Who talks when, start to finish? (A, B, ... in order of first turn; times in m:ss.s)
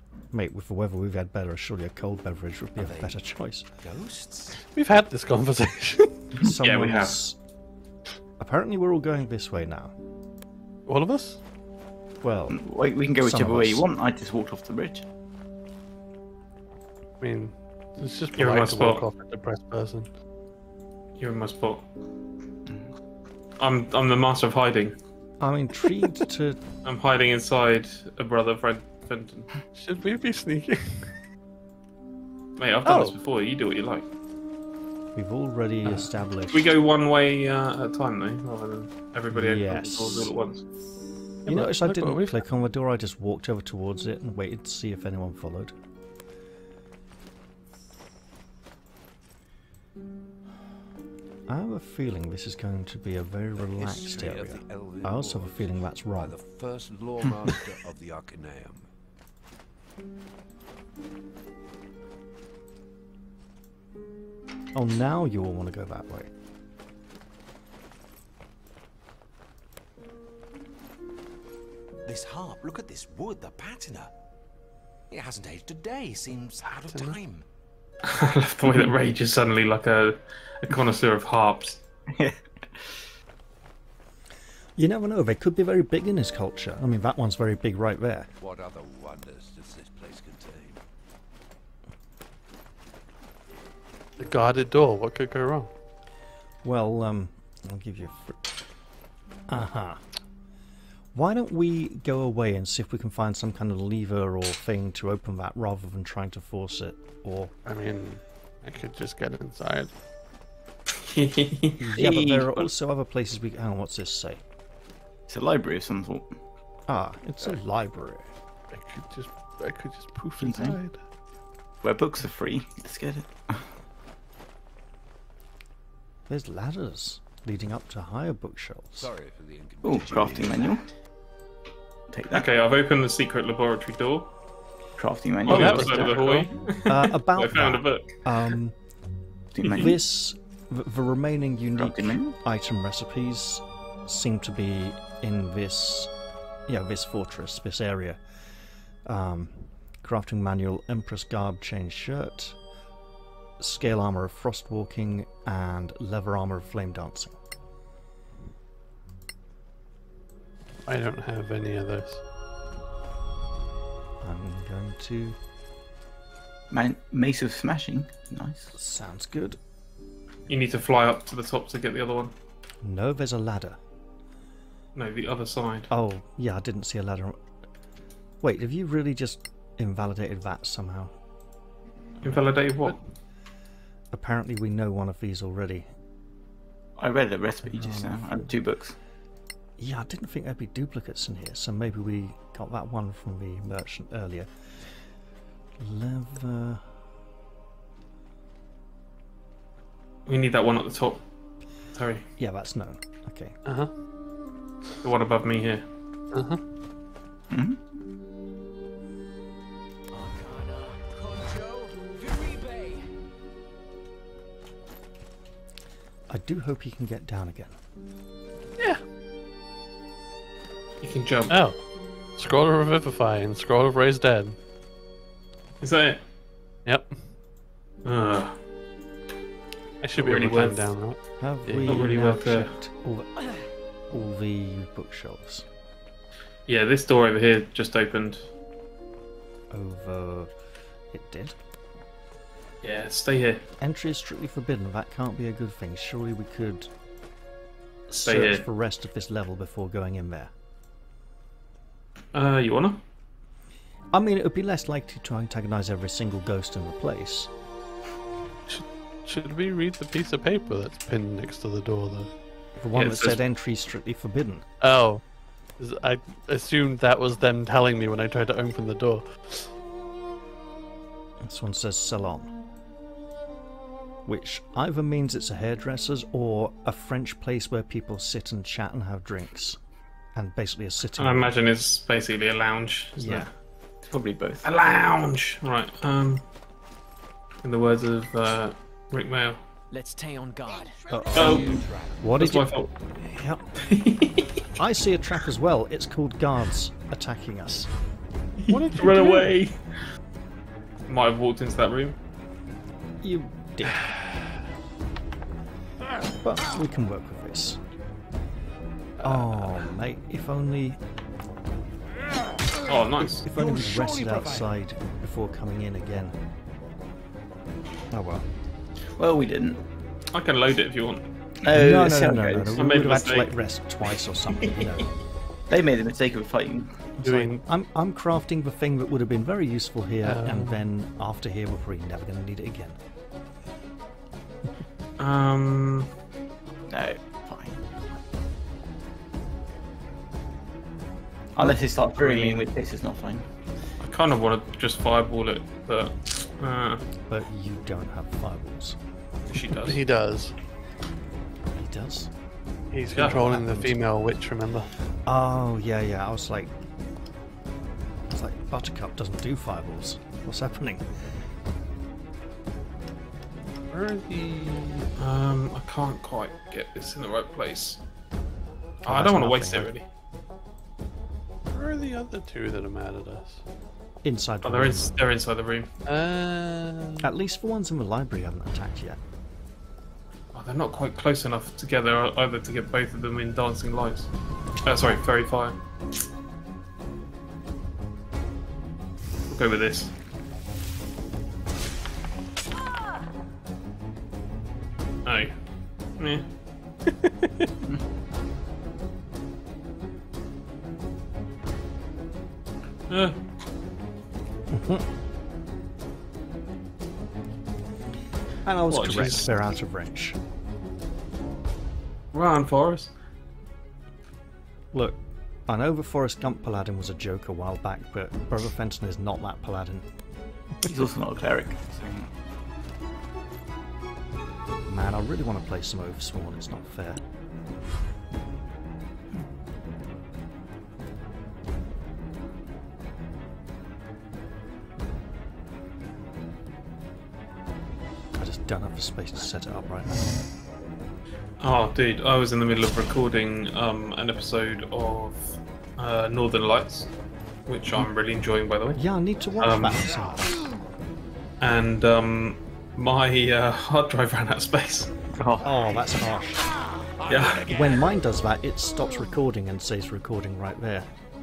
0:00.3-0:03.7 A
0:03.8-0:04.6 B
0:04.6-0:06.3 C
0:06.4-0:07.4 A
0:06.5-0:07.2 D
0:08.4-0:09.9 A
0:10.9-0:11.4 C
0:12.2-0:12.6 A
0:12.5-0:15.0 E
0:13.2-0:13.8 A
0:17.2-0:20.1 C
0:18.4-0:19.0 D
0:21.2-0:21.8 D
0:23.6-0:25.0 D
0:25.4-0:26.6 A
0:26.8-0:29.5 D
0:29.7-0:31.1 C
0:32.6-0:34.0 D
0:32.8-0:33.1 C
0:35.1-0:36.7 A
0:36.5-0:40.6 D
0:39.3-0:40.3 A
0:41.4-0:42.4 C
0:41.4-0:45.7 A
0:51.5-0:56.4 A
0:53.6-0:58.9 F
1:04.7-1:06.3 A
1:12.0-1:14.1 B
1:15.1-1:17.4 B
1:16.7-1:17.2 C
1:18.0-1:21.8 D
1:22.1-1:23.1 E
1:24.8-1:28.3 A
1:28.4-1:30.8 F
1:34.2-1:35.7 C
1:36.6-1:38.4 A
1:39.5-1:40.0 A
1:41.1-1:47.5 A
1:47.6-1:49.9 C
1:51.0-1:52.7 D
1:51.8-1:54.4 A
1:55.3-1:56.3 E
1:56.9-1:58.3 A
1:58.7-2:01.0 C
2:00.4-2:00.8 E
2:01.8-2:03.7 E
2:06.3-2:09.1 A
2:09.0-2:10.8 F
2:09.8-2:10.9 E
2:12.1-2:12.4 E
2:12.3-2:14.3 D
2:15.0-2:16.4 E
2:15.4-2:18.2 D
2:15.4-2:16.5 C
2:16.9-2:18.8 A
2:19.5-2:20.0 E
2:19.7-2:26.1 A
2:21.8-2:22.3 E
2:26.7-2:28.2 A
2:29.0-2:32.6 A
2:33.6-2:37.4 A
2:40.9-2:42.2 C
2:44.2-2:45.4 A
2:46.7-2:48.7 E
2:48.7-2:49.6 A
2:50.5-2:52.3 D
2:52.8-2:53.8 A
2:54.9-2:55.9 D
2:55.9-2:57.4 A
2:58.4-3:01.1 A
3:02.2-3:03.0 D
3:04.1-3:05.9 A
3:07.0-3:09.0 E
3:07.7-3:08.5 A
3:09.8-3:14.5 A
3:15.8-3:16.8 A
3:20.2-3:21.2 D
3:21.9-3:22.2 D
3:22.4-3:23.6 A
3:23.6-3:23.9 C
3:25.0-3:25.8 D
3:26.3-3:26.6 C
3:27.5-3:27.8 E
3:30.1-3:33.1 G
3:36.3-3:37.8 A
3:41.0-3:41.6 D
3:41.5-3:41.8 C
3:42.4-3:44.6 C
3:45.8-3:46.2 D
3:46.8-3:47.2 C
3:48.0-3:48.6 D
3:50.0-3:52.1 C
3:50.1-3:50.9 D
3:51.4-3:53.3 A
3:51.8-3:52.7 D
3:54.1-3:55.7 A
3:56.7-3:58.5 D
3:59.7-4:00.5 A
4:01.1-4:01.6 A
4:02.8-4:03.6 D
4:03.8-4:06.9 A
4:08.1-4:10.5 A
4:08.2-4:08.6 D
4:12.3-4:13.0 D
4:14.1-4:17.5 A
4:18.7-4:22.3 C
4:22.8-4:24.6 A
4:22.9-4:23.4 D
4:24.8-4:25.2 C
4:25.8-4:29.7 C
4:31.4-4:32.5 A
4:34.2-4:39.8 A
4:40.3-4:41.6 A
4:41.2-4:43.5 D
4:43.2-4:43.5 A
4:44.0-4:44.7 E
4:44.6-4:46.4 D
4:47.6-4:49.6 D
4:49.9-4:51.8 G
4:51.1-4:53.6 A
4:51.3-4:52.9 D
4:51.4-4:52.2 F
4:53.0-4:53.5 F
4:53.8-4:54.6 D
4:54.8-4:57.9 A
4:58.6-4:59.8 D
4:58.7-4:59.5 C
5:01.1-5:02.2 D
5:03.2-5:04.1 A
5:06.4-5:07.8 A
5:09.2-5:11.0 A
5:09.2-5:09.6 C
5:12.8-5:13.4 D
5:13.4-5:16.3 A
5:13.6-5:14.4 B
5:18.1-5:18.5 A
5:19.2-5:19.8 E
5:20.3-5:21.2 D
5:21.6-5:22.8 E
5:21.7-5:25.1 A
5:22.8-5:23.5 D
5:25.7-5:27.1 E
5:27.2-5:33.0 A
5:27.2-5:27.6 C
5:30.2-5:30.8 C
5:35.2-5:36.1 D
5:36.9-5:37.8 E
5:41.5-5:43.5 E
5:42.2-5:42.5 D
5:44.0-5:47.0 D
5:47.3-5:49.0 A
5:49.5-5:50.0 D
5:49.7-5:50.5 C
5:51.7-5:52.3 A
5:52.9-5:54.9 C
5:53.1-5:53.5 D
5:53.4-5:54.0 A
5:55.2-5:56.7 A
5:58.3-6:01.0 A
6:03.9-6:05.1 C
6:05.2-6:08.0 D
6:09.0-6:09.9 A
6:09.0-6:10.0 D
6:11.7-6:13.6 C
6:14.2-6:15.1 A
6:14.6-6:15.9 D
6:16.0-6:17.3 C
6:17.2-6:19.2 A
6:20.5-6:24.3 D
6:24.8-6:25.8 D
6:29.5-6:30.1 D
6:35.2-6:35.5 D
6:36.2-6:36.4 D
6:43.1-6:43.4 D
6:44.7-6:45.0 A
6:48.6-6:50.4 A
6:48.9-6:49.5 D
6:52.3-6:53.1 D
6:54.9-7:00.0 A
7:00.8-7:02.3 E
7:04.8-7:07.2 A
7:18.4-7:20.3 A
7:21.6-7:27.1 D
7:27.7-7:29.0 D
7:28.9-7:30.6 A
7:29.6-7:30.0 D
7:31.6-7:35.1 D
7:35.4-7:35.8 E
7:35.6-7:36.7 A
7:37.3-7:37.7 D
7:37.5-7:41.1 A